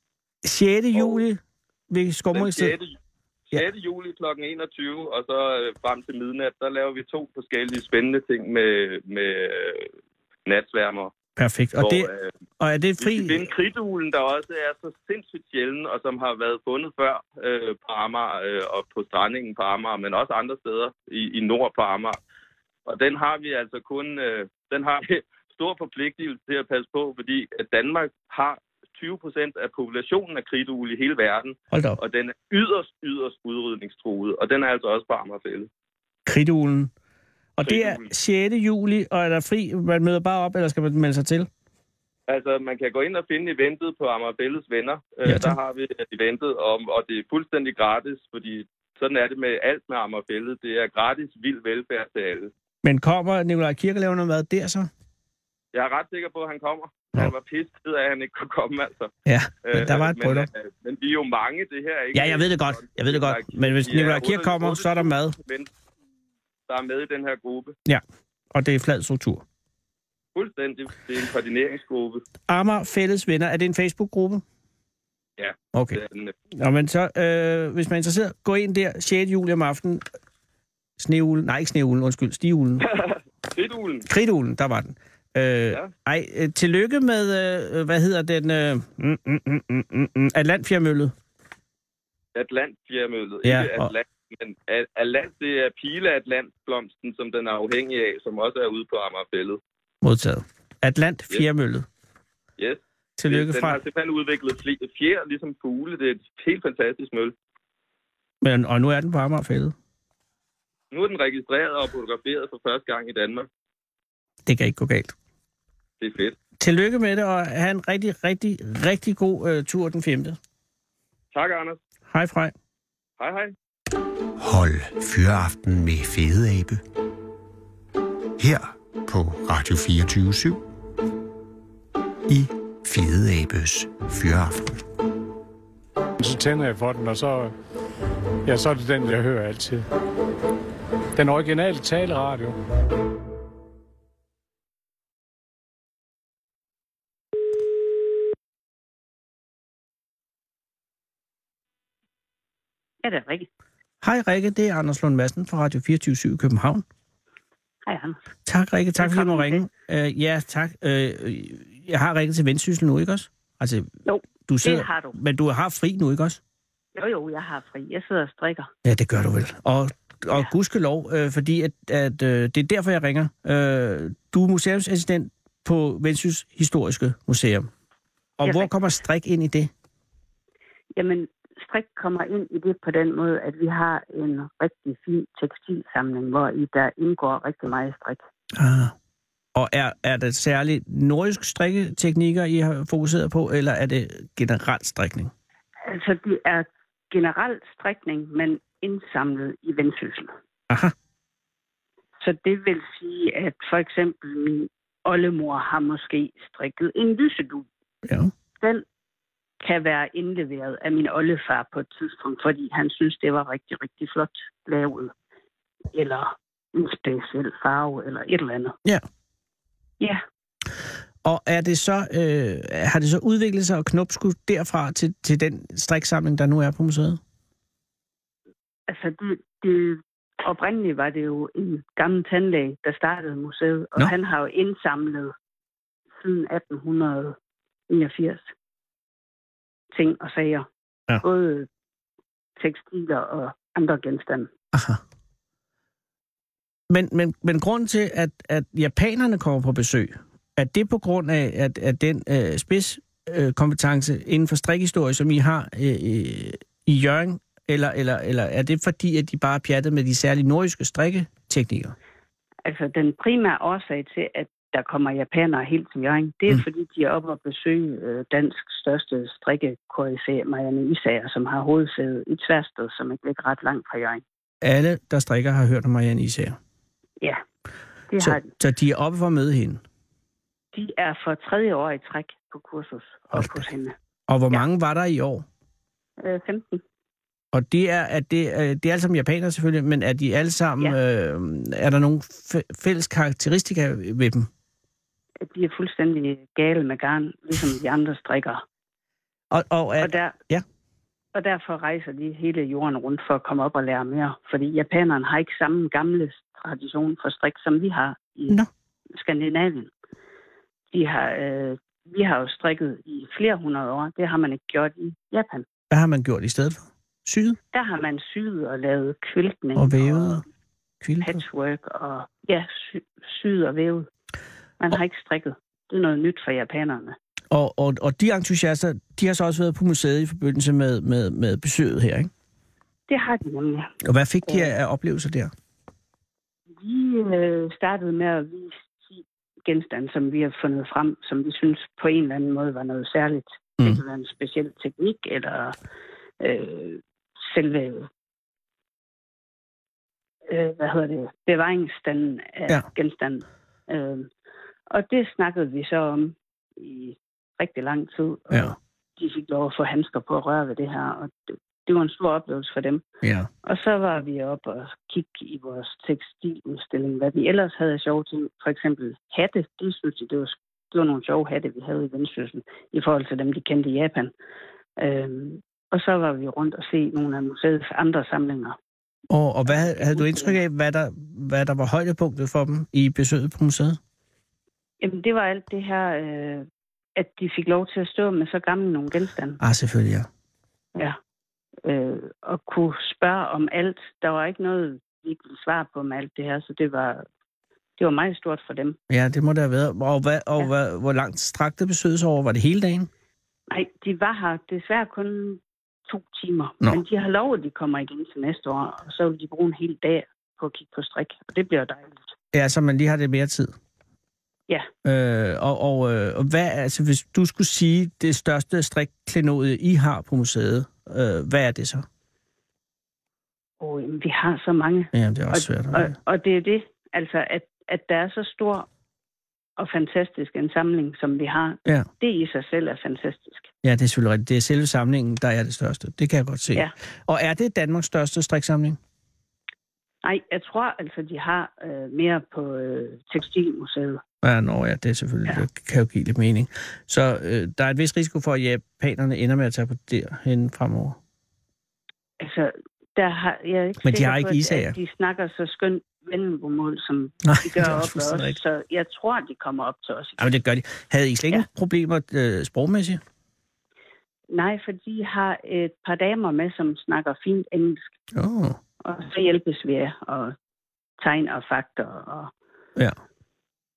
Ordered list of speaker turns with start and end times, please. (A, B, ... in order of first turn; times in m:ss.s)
0:00.4-0:02.7 A
0:00.9-0:01.2 B
0:02.3-0:03.0 B
0:03.5-0:09.9 B
0:10.4-0:11.1 B
0:11.4-0:13.5 A
0:11.8-0:12.3 B
0:13.0-0:22.2 B
0:22.8-0:35.7 B
0:31.7-0:32.0 A
0:36.2-0:36.9 A
0:37.6-0:41.5 A
0:37.6-0:38.0 B
0:42.3-0:52.5 B
0:45.2-0:45.6 A
0:52.8-0:54.9 A
0:55.7-0:59.1 B
0:59.2-1:00.5 A
0:59.6-1:05.7 B
1:02.1-1:05.4 A
1:06.7-1:07.7 B
1:08.5-1:09.4 A
1:10.3-1:12.2 B
1:12.5-1:14.4 A
1:15.4-1:16.3 B
1:15.7-1:16.0 A
1:16.5-1:20.0 A
1:21.0-1:22.9 A
1:22.8-1:24.0 B
1:24.1-1:31.1 A
1:32.3-1:39.6 B
1:33.4-1:33.9 A
1:40.0-1:41.8 A
1:42.6-1:47.3 B
1:43.2-1:43.8 A
1:48.4-1:49.7 A
1:50.9-1:53.5 B
1:54.4-1:55.1 A
1:56.0-1:56.4 B
1:56.6-2:00.4 A
2:01.3-2:01.8 B
2:02.1-2:02.5 A
2:03.2-2:03.5 B
2:04.4-2:06.8 C
2:08.4-2:10.6 C
2:12.3-2:14.8 C
2:16.2-2:17.5 D
2:18.4-2:19.8 D
2:21.2-2:22.6 D
2:33.0-2:33.5 E
2:34.0-2:36.8 A
2:37.8-2:38.2 E
2:38.4-2:43.9 A
2:39.0-2:39.6 E
2:44.0-2:45.2 E
2:44.4-2:46.4 A
2:46.9-2:48.7 E
2:48.8-2:57.7 A
2:58.4-2:59.7 A
2:58.4-2:58.7 E
3:00.9-3:08.2 E
3:08.6-3:08.9 A
3:09.5-3:15.3 A
3:15.8-3:20.3 E
3:22.2-3:27.7 E
3:28.0-3:28.3 A
3:29.6-3:35.1 E
3:35.9-3:38.8 E
3:41.2-3:47.2 A
3:48.9-3:55.3 E
3:56.2-3:57.4 E
3:57.9-3:58.5 E
3:59.9-4:00.7 E
4:01.2-4:01.7 E
4:02.6-4:04.5 E
4:04.7-4:05.0 A
4:06.9-4:21.9 A
4:22.6-4:34.2 E
4:34.6-4:36.6 A
4:38.1-4:38.5 E
4:38.2-4:39.8 A
4:40.7-4:43.9 E
4:43.3-4:43.6 A
4:44.3-4:45.4 A
4:46.2-4:46.8 E
4:47.5-4:54.5 A
4:55.4-4:58.6 E
4:59.5-5:00.6 A
5:00.0-5:00.4 E
5:01.3-5:08.6 E
5:09.2-5:09.9 E
5:10.9-5:15.6 E
5:15.9-5:17.6 A
5:17.7-5:20.4 E
5:19.8-5:20.4 A
5:21.0-5:21.4 A
5:21.2-5:24.1 E
5:24.8-5:27.1 E
5:27.5-5:32.3 A
5:33.1-5:33.9 E
5:34.0-5:35.5 A
5:34.4-5:34.8 E
5:36.8-5:45.7 E
5:46.4-5:48.1 E
5:50.5-5:54.3 E
5:54.9-6:03.0 E
6:03.2-6:03.5 A
6:03.6-6:14.3 E
6:15.0-6:18.8 E
6:19.3-6:24.0 A
6:19.7-6:20.6 E
6:25.0-6:29.6 E
6:29.6-6:30.3 A
6:31.8-6:37.2 E
6:38.0-6:39.0 E
6:39.1-6:43.1 A
6:43.7-6:52.3 E
6:52.5-6:53.7 A
6:55.0-7:02.0 A
7:03.8-7:08.9 E
7:05.1-7:06.1 A
7:09.8-7:13.7 E
7:13.8-7:19.0 A
7:20.2-7:24.2 E
7:24.4-7:31.2 A
7:32.4-7:40.5 E
7:34.0-7:34.9 A
7:37.4-7:38.6 A
7:40.4-7:43.2 A
7:44.5-7:48.1 E
7:48.3-7:48.8 A
7:49.0-7:50.5 E
7:51.2-7:52.5 E